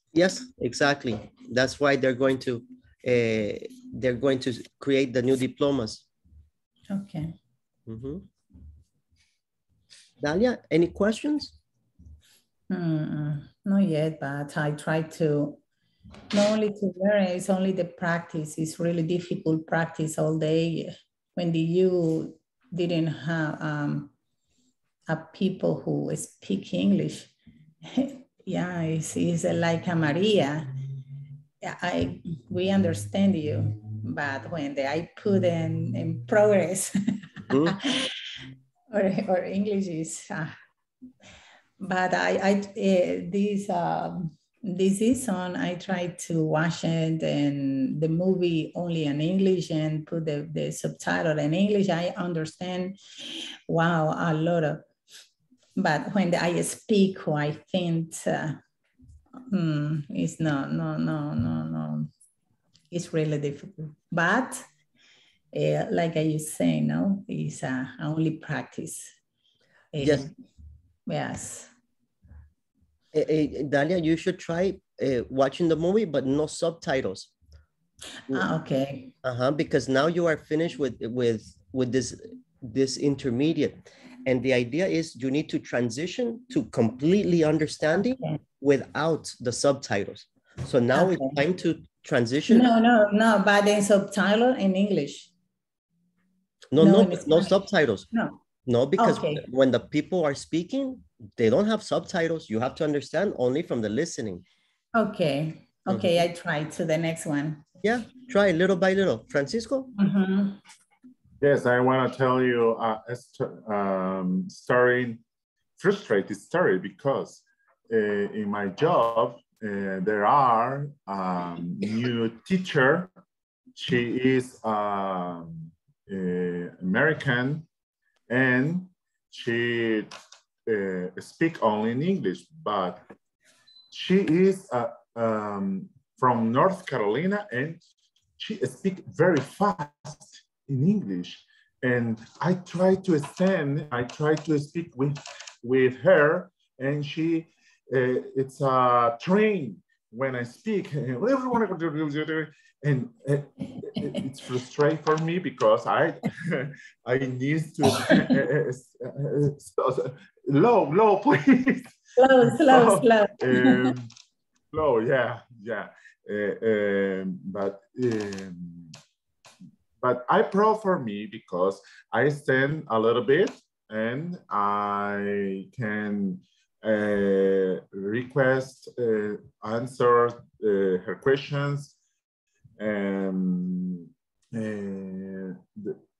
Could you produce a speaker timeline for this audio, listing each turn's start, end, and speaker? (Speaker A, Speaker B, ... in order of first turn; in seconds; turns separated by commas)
Speaker A: 0.1-6.0, Speaker B: 6.9-7.3, Speaker A: 7.9-8.2, Speaker A: 10.2-11.6, Speaker B: 12.7-15.6, Speaker B: 16.3-24.1, Speaker B: 25.1-27.3, Speaker B: 27.9-30.7, Speaker B: 31.6-36.9, Speaker A: 37.5-37.8, Speaker B: 37.6-38.1, Speaker B: 38.9-40.5, Speaker B: 41.8-53.0, Speaker B: 53.7-54.9, Speaker B: 55.8-58.6, Speaker B: 59.5-62.1, Speaker B: 62.9-64.6, Speaker B: 65.5-69.1, Speaker B: 69.9-70.3, Speaker A: 70.0-70.3, Speaker B: 71.1-71.7, Speaker A: 73.1-77.3, Speaker B: 78.3-79.1, Speaker A: 79.2-92.7, Speaker B: 88.0-88.4, Speaker B: 90.9-91.4, Speaker B: 92.5-95.3, Speaker A: 96.7-98.1, Speaker B: 96.8-97.6, Speaker B: 98.1-98.4, Speaker A: 98.7-104.4, Speaker B: 99.0-99.4, Speaker B: 104.9-107.6, Speaker A: 105.9-106.2, Speaker A: 107.8-109.9, Speaker B: 110.0-110.6, Speaker C: 111.4-115.2, Speaker C: 115.8-123.1, Speaker C: 123.8-127.7, Speaker C: 128.3-130.1, Speaker C: 130.7-133.0, Speaker C: 133.9-137.8, Speaker C: 138.4-164.1, Speaker B: 162.2-163.8, Speaker C: 164.7-168.9, Speaker C: 170.0-181.9, Speaker C: 182.8-186.0